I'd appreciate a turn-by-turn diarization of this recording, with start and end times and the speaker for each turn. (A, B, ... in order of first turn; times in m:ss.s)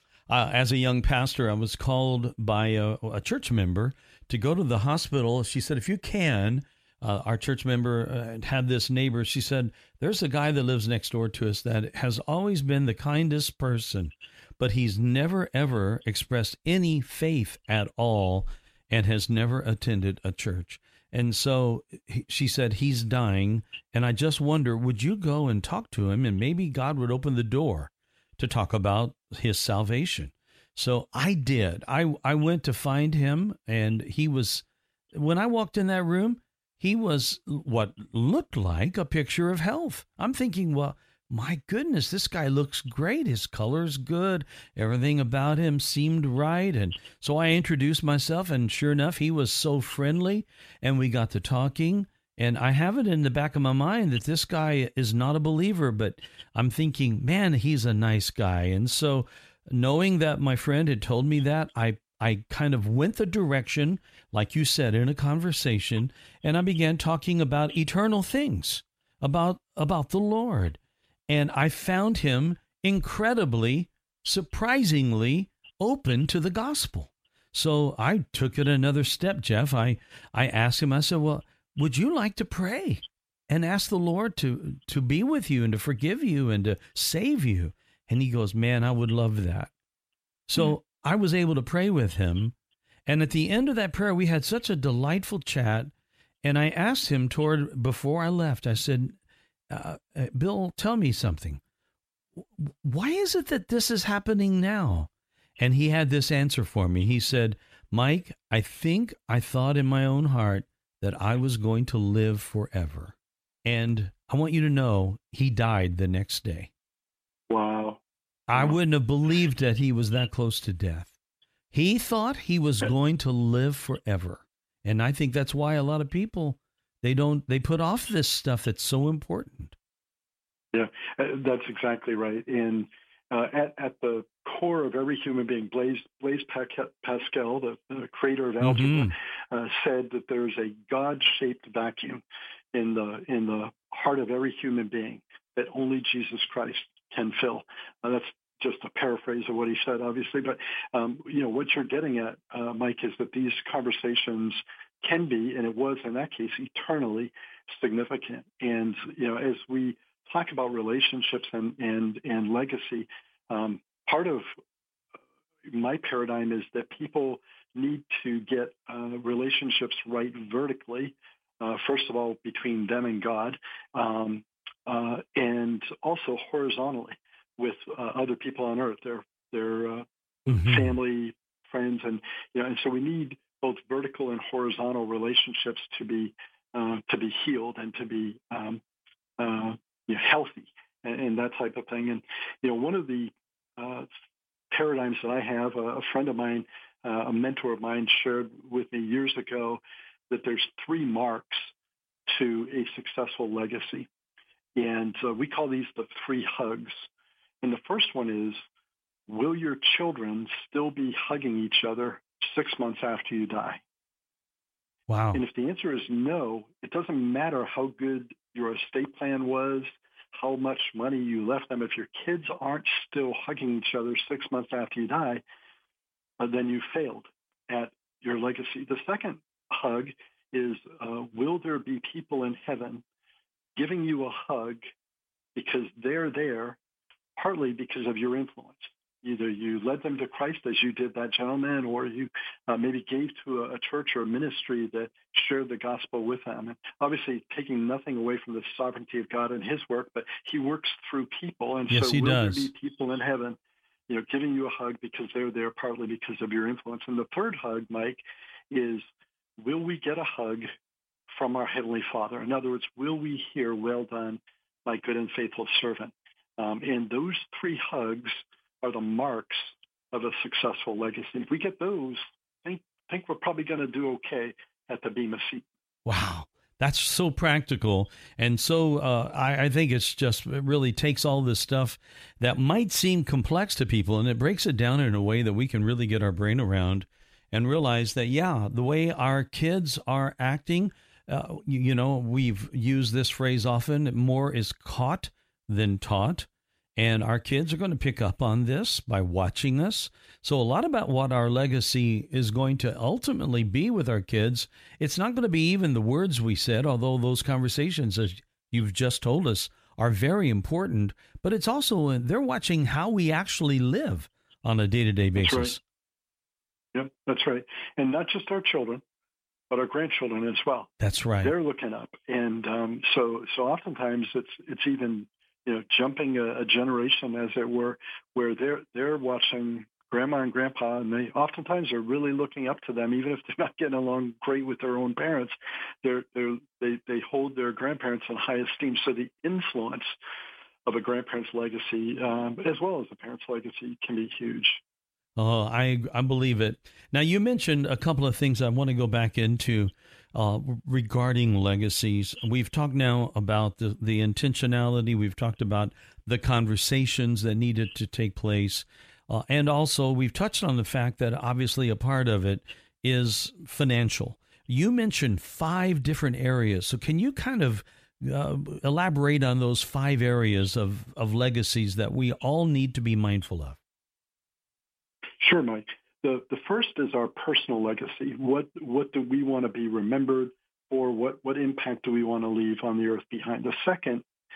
0:00.3-1:29.7 A
1:30.5-1:32.5 A
1:33.1-1:35.9 A
1:36.4-1:39.2 A
1:39.7-1:41.6 A
1:42.6-1:56.7 A
1:57.5-1:58.0 B
1:58.5-2:01.1 A
2:01.7-2:09.8 A
2:10.7-2:44.5 B
2:18.6-2:19.1 A
2:45.7-3:08.8 B
3:00.5-3:00.9 A
3:09.4-3:14.1 B
3:14.7-3:21.7 B
3:22.3-3:24.1 B
3:24.8-3:27.1 B
3:27.6-3:28.6 B
3:29.3-3:33.8 B
3:35.1-3:35.4 A
3:35.3-3:45.4 B
3:46.4-3:53.0 B
3:53.8-3:54.8 B
3:55.6-3:56.8 B
3:57.4-4:13.6 B
4:11.9-4:12.7 A
4:14.1-4:19.0 B
4:19.6-4:20.7 B
4:21.3-4:35.6 B
4:36.1-5:15.8 A
5:15.4-5:15.8 B
5:16.9-5:19.0 B
5:19.7-5:20.9 B
5:21.0-5:21.5 A
5:21.4-5:40.2 B
5:40.9-5:44.8 B
5:45.4-6:13.8 A
6:15.4-6:24.2 B